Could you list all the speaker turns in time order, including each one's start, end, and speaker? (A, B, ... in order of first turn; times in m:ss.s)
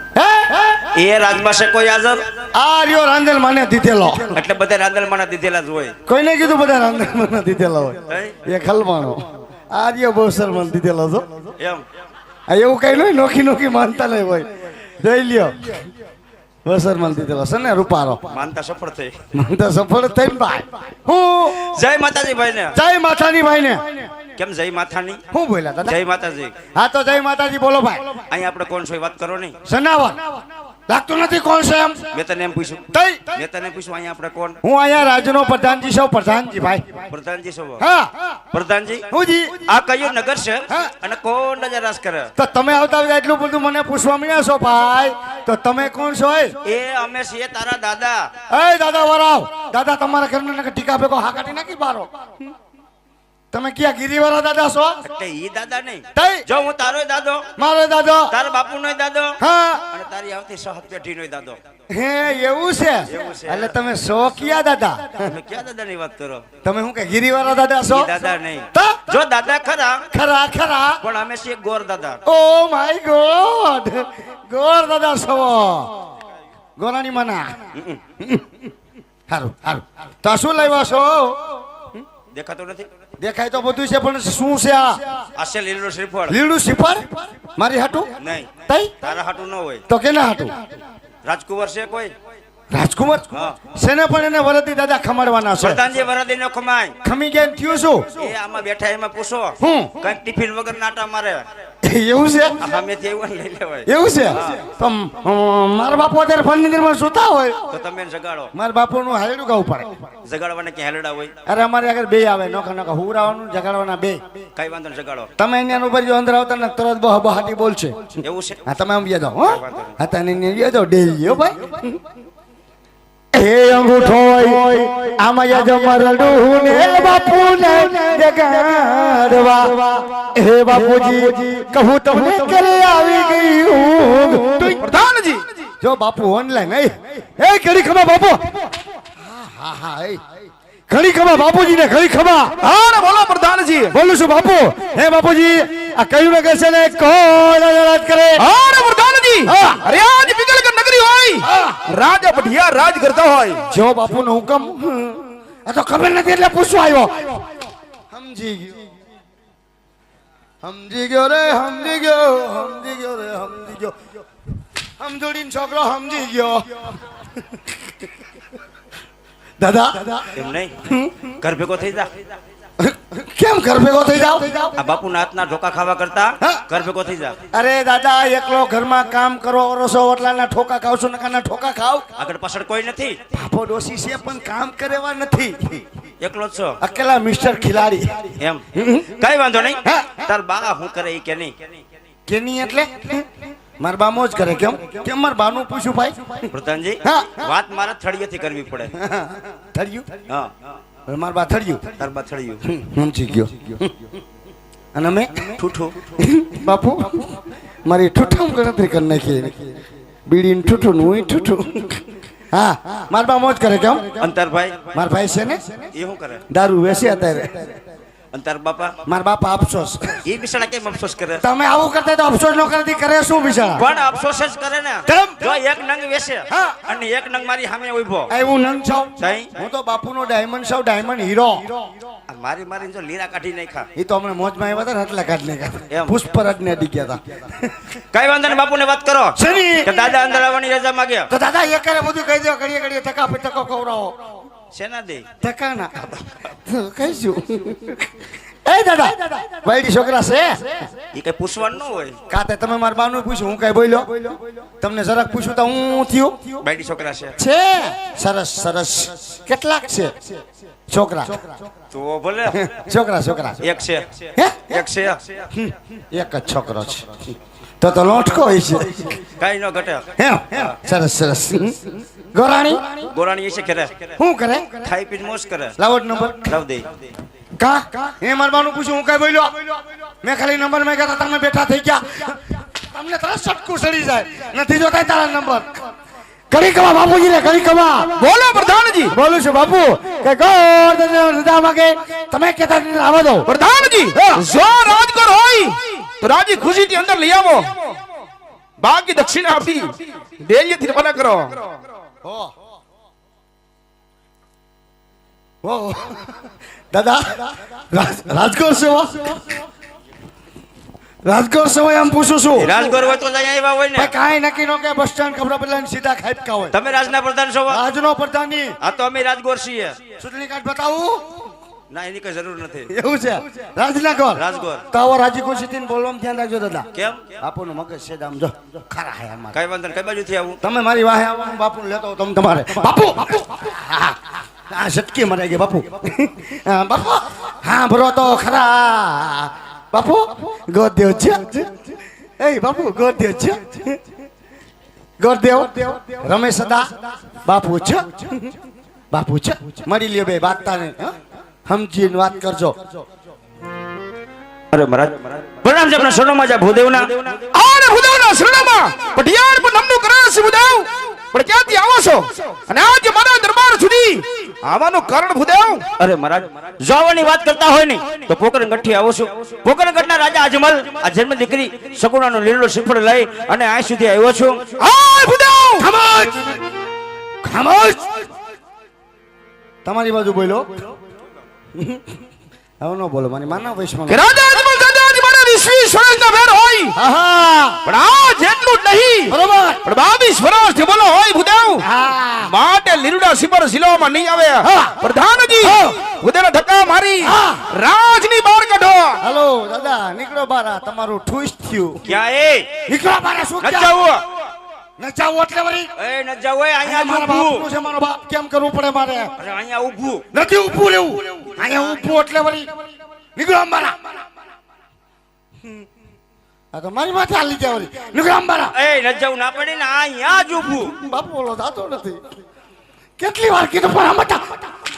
0:00.2-0:00.9 A
0:00.9-0:02.3 B
0:02.5-0:04.4 A
0:04.3-0:06.0 B
0:06.1-0:11.5 A
0:08.1-0:08.4 B
0:11.6-0:11.8 B
0:12.5-0:15.9 A
0:16.6-0:18.2 A
0:18.3-0:19.2 B
0:19.3-0:21.8 A
0:21.5-0:22.8 B
0:22.8-0:24.1 A
0:24.4-0:25.2 B
0:25.3-0:26.0 A
0:25.8-0:26.6 B
0:26.7-0:28.2 A
0:28.3-0:29.6 B
0:29.6-0:30.4 A
0:30.9-0:32.1 A
0:32.1-0:34.6 B
0:32.9-0:33.4 A
0:34.6-0:37.0 A
0:37.1-0:37.9 B
0:37.8-0:38.4 A
0:38.5-0:39.1 B
0:39.1-0:39.6 A
0:39.6-0:42.3 B
0:42.4-0:46.6 A
0:46.6-0:48.3 B
0:48.5-0:52.1 A
0:53.5-0:55.0 A
0:55.0-0:57.5 B
0:56.2-0:56.4 A
0:57.6-0:58.3 A
0:58.3-1:01.6 B
0:59.4-0:59.8 A
1:01.9-1:05.3 A
1:03.1-1:03.8 B
1:05.2-1:06.4 B
1:06.6-1:08.1 A
1:07.9-1:10.0 B
1:08.7-1:09.2 A
1:10.1-1:11.0 A
1:11.0-1:12.2 B
1:12.3-1:16.1 A
1:16.8-1:17.6 A
1:17.8-1:18.0 B
1:18.2-1:18.6 A
1:19.3-1:21.6 A
1:22.3-1:22.9 B
1:23.2-1:25.0 A
1:25.4-1:26.4 B
1:26.3-1:28.1 A
1:28.2-1:29.8 B
1:28.7-1:28.9 A
1:29.9-1:30.6 A
1:31.2-1:32.1 B
1:32.7-1:35.8 A
1:33.3-1:33.6 B
1:35.6-1:37.0 B
1:37.0-1:38.3 A
1:38.2-1:41.5 B
1:39.6-1:39.9 A
1:41.8-1:42.6 A
1:42.6-1:44.6 B
1:43.9-1:47.6 A
1:47.7-1:48.5 B
1:48.5-1:49.9 A
1:50.2-1:51.3 B
1:51.5-1:54.2 A
1:54.6-1:55.3 B
1:55.4-1:58.2 A
1:58.2-1:58.6 B
1:58.7-2:02.0 A
1:59.5-2:00.0 B
2:03.3-2:14.8 A
2:14.8-2:15.5 C
2:15.8-2:20.2 A
2:20.9-2:22.6 A
2:22.6-2:24.0 C
2:23.9-2:28.5 A
2:28.4-2:33.7 C
2:29.5-2:29.8 A
2:31.4-2:31.8 A
2:33.7-2:37.5 A
2:38.1-2:38.9 A
2:40.6-2:44.0 A
2:45.0-2:47.0 A
2:47.5-2:47.9 A
2:49.6-2:51.3 A
2:50.3-2:52.2 B
2:52.8-2:54.8 A
2:54.8-2:57.4 B
2:57.5-3:02.1 A
3:02.2-3:03.2 B
3:03.3-3:05.9 A
3:06.2-3:06.8 B
3:06.8-3:09.1 A
3:08.4-3:11.6 B
3:09.8-3:10.2 A
3:12.3-3:13.3 A
3:13.8-3:16.5 A
3:16.5-3:18.9 B
3:17.0-3:17.5 A
3:19.0-3:20.1 A
3:20.3-3:20.7 B
3:21.1-3:21.9 A
3:22.0-3:22.7 B
3:22.7-3:23.9 A
3:24.9-3:25.6 A
3:25.6-3:26.0 B
3:26.2-3:34.3 A
3:34.2-3:35.0 B
3:34.9-3:35.7 A
3:35.9-3:36.4 B
3:36.5-3:37.8 A
3:38.3-3:39.0 B
3:39.1-3:40.2 A
3:40.2-3:41.4 B
3:41.4-3:43.9 A
3:43.8-3:48.3 B
3:45.1-3:45.6 A
3:46.5-3:46.8 A
3:48.3-3:51.8 A
3:49.2-3:49.5 B
3:52.3-3:53.9 B
3:54.0-3:57.9 A
3:55.9-3:56.2 B
3:58.1-4:01.3 B
3:59.4-3:59.9 A
4:01.3-4:04.2 A
4:04.7-4:05.3 B
4:05.4-4:10.9 A
4:11.1-4:12.2 B
4:12.3-4:16.6 A
4:16.6-4:17.4 B
4:17.4-4:20.3 A
4:20.9-4:21.6 A
4:21.9-4:22.6 B
4:22.5-4:23.6 A
4:23.6-4:25.5 B
4:24.4-4:24.8 A
4:25.5-4:27.2 A
4:27.8-4:29.2 A
4:29.3-4:30.6 B
4:30.2-4:33.0 A
4:33.0-4:34.1 B
4:34.2-4:34.9 A
4:34.8-4:35.8 B
4:35.8-4:36.6 A
4:36.4-4:37.0 B
4:37.6-4:45.9 A
4:46.5-4:48.1 A
4:48.1-4:49.2 C
4:49.1-4:53.5 A
4:53.4-4:58.0 C
4:54.1-4:54.4 A
4:58.8-5:01.7 C
5:02.2-5:02.5 A
5:05.6-5:09.6 A
5:11.2-5:12.9 A
5:12.6-5:14.1 B
5:14.0-5:16.7 A
5:16.7-5:17.8 B
5:17.7-5:18.7 A
5:18.8-5:20.0 B
5:20.2-5:21.5 A
5:21.9-5:22.9 B
5:22.9-5:26.9 A
5:24.3-5:24.8 B
5:26.9-5:27.2 B
5:27.4-5:29.6 A
5:29.5-5:30.6 B
5:30.6-5:44.0 A
5:45.2-5:48.5 A
5:49.1-5:53.0 A
5:54.7-5:57.2 B
5:57.2-6:05.9 C
6:06.0-6:14.6 B
6:14.8-6:15.9 C
6:15.8-6:16.6 A
6:17.4-6:18.3 A
6:19.8-6:21.0 A
6:21.8-6:22.2 A
6:22.8-6:24.2 A
6:24.1-6:27.0 C
6:27.0-6:27.8 A
6:27.8-6:31.9 C
6:29.3-6:29.8 A
6:31.8-6:32.5 A
6:32.4-6:39.2 C
6:34.6-6:35.0 A
6:35.6-6:36.0 A
6:37.2-6:37.6 A
6:39.2-6:42.2 A
6:42.0-6:42.7 B
6:42.9-6:44.1 A
6:43.6-6:44.1 B
6:43.7-6:44.2 C
6:45.0-6:45.9 A
6:46.0-6:47.7 B
6:46.8-6:49.3 A
6:49.4-6:50.2 B
6:50.3-6:52.7 A
6:53.4-6:54.2 A
6:56.7-6:58.7 A
6:58.7-7:01.0 B
7:00.8-7:02.4 A
7:03.2-7:04.7 A